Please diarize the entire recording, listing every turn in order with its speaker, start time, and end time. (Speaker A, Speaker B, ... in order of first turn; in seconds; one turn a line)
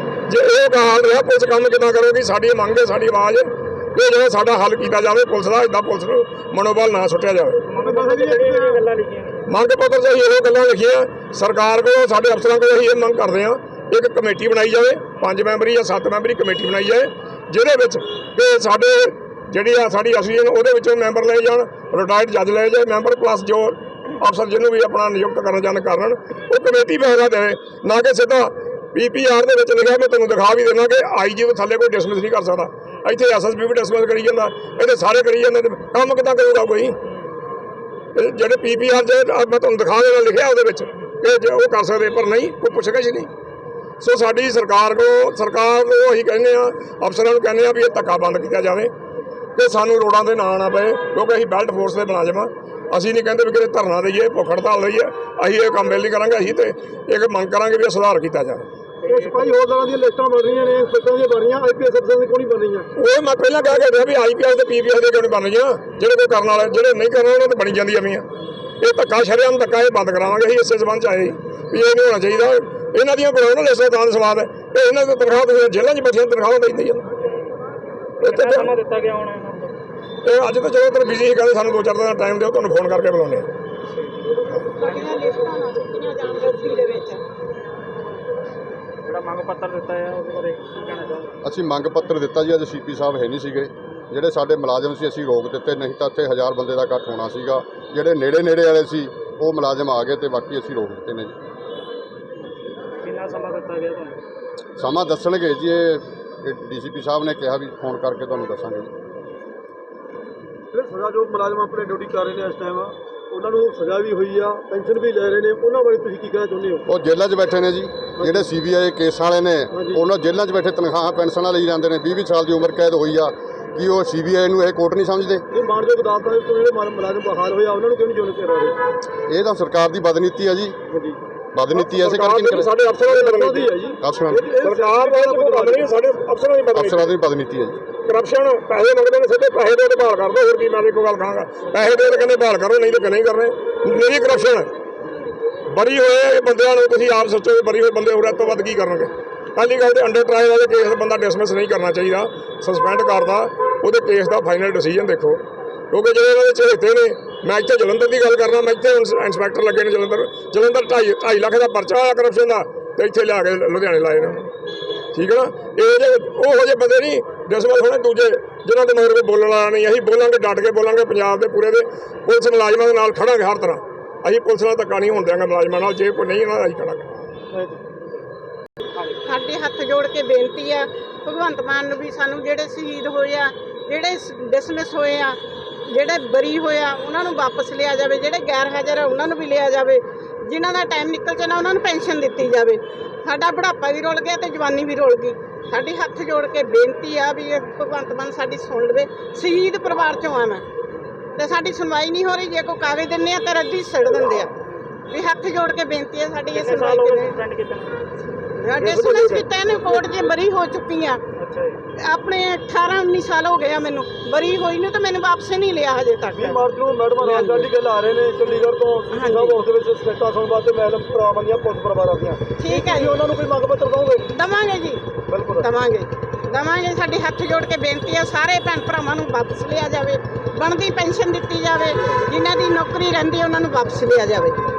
Speaker A: 0.3-7.6
Speaker B: 7.7-9.5
Speaker C: 7.8-8.8
Speaker A: 9.5-37.0
Speaker A: 38.1-43.3
Speaker A: 44.0-48.9
Speaker A: 49.6-58.7
Speaker B: 59.0-59.6
Speaker C: 59.1-62.9
Speaker A: 63.0-68.2
Speaker A: 68.8-77.0
Speaker A: 78.2-78.7
Speaker B: 78.2-79.7
Speaker A: 80.2-83.5
Speaker D: 84.8-87.2
Speaker B: 84.8-85.3
Speaker B: 89.1-91.4
Speaker E: 91.4-101.3
Speaker B: 103.0-104.2
Speaker E: 104.8-108.9
Speaker C: 110.7-116.8
Speaker E: 116.9-125.5
Speaker C: 118.2-118.5
Speaker C: 119.7-120.0
Speaker C: 125.5-128.8
Speaker E: 129.3-130.8
Speaker C: 130.9-131.2
Speaker E: 131.6-132.7
Speaker A: 131.8-133.7
Speaker C: 133.1-135.9
Speaker E: 134.0-134.4
Speaker A: 134.5-137.1
Speaker E: 136.7-137.8
Speaker A: 138.1-144.7
Speaker A: 145.7-164.5
Speaker A: 165.1-177.2
Speaker C: 177.5-177.8
Speaker D: 179.2-200.6
Speaker D: 201.3-204.5
Speaker D: 205.1-207.4
Speaker B: 206.5-208.0
Speaker D: 208.6-211.2
Speaker B: 208.8-210.0
Speaker B: 211.4-211.8
Speaker D: 212.0-216.7
Speaker C: 216.4-224.3
Speaker D: 217.2-217.7
Speaker D: 219.1-219.6
Speaker D: 222.6-223.2
Speaker D: 224.3-225.0
Speaker C: 225.3-225.7
Speaker D: 225.6-234.6